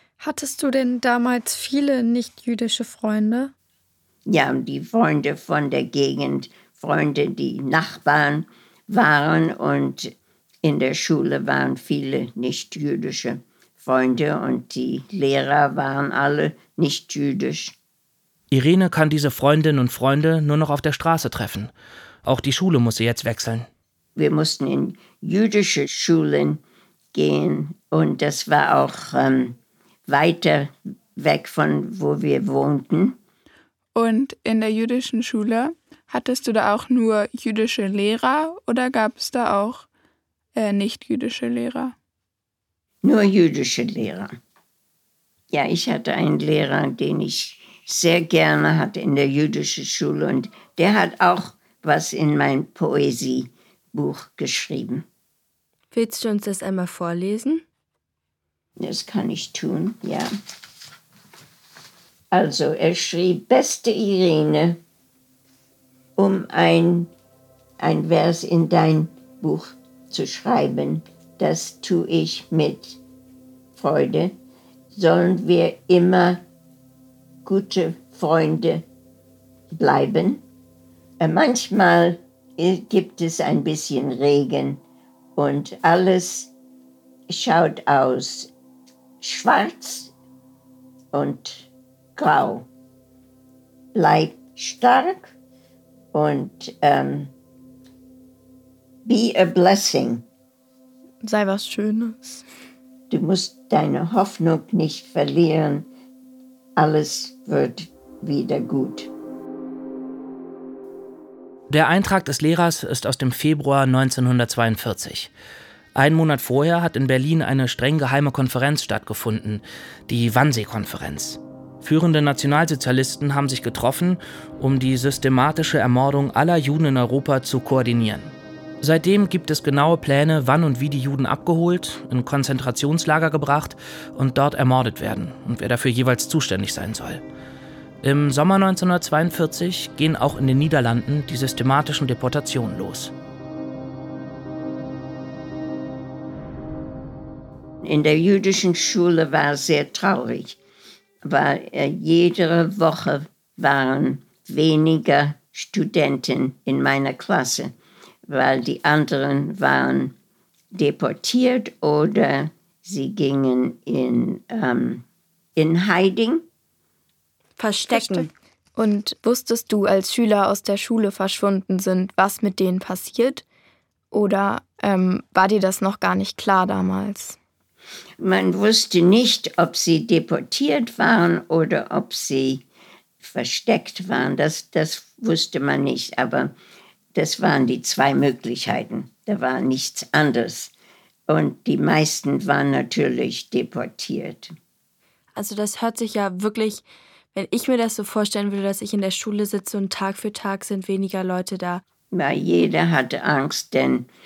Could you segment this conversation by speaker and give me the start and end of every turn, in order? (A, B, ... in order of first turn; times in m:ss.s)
0:00.2-0:03.5 A
0:04.3-0:17.8 B
0:18.5-0:21.7 C
0:22.2-0:23.7 C
0:24.2-0:26.6 B
0:27.1-0:33.2 B
0:34.0-0:39.9 D
0:40.6-0:42.0 D
0:43.0-0:44.4 B
0:45.5-0:55.1 B
0:55.9-0:57.6 E
0:58.8-1:00.3 B
1:02.3-1:04.8 B
1:06.2-1:07.1 B
1:07.8-1:13.0 B
1:13.8-1:14.4 B
1:14.9-1:16.4 B
1:17.4-1:18.8 B
1:19.7-1:20.4 B
1:21.2-1:24.8 B
1:25.4-1:26.5 B
1:27.3-1:28.5 B
1:29.2-1:30.1 B
1:31.1-1:32.7 B
1:34.0-1:35.3 B
1:36.1-1:37.3 B
1:39.0-1:40.3 B
1:41.2-1:42.4 F
1:43.1-1:45.9 B
1:46.8-1:49.1 B
1:51.7-1:55.3 C
1:56.0-2:17.2 C
2:18.0-2:23.1 C
2:27.8-2:30.6 B
2:31.2-2:37.8 B
2:38.3-2:40.1 B
2:40.7-2:45.0 B
2:45.6-2:46.4 B
2:47.6-2:48.3 E
2:47.9-2:53.4 F
2:54.1-2:57.4 F
2:58.2-3:02.6 B
3:03.2-3:06.6 B
3:07.1-3:10.7 B
3:11.3-3:14.5 B
3:15.4-3:16.8 E
3:17.3-3:21.8 E
3:22.1-3:24.1 B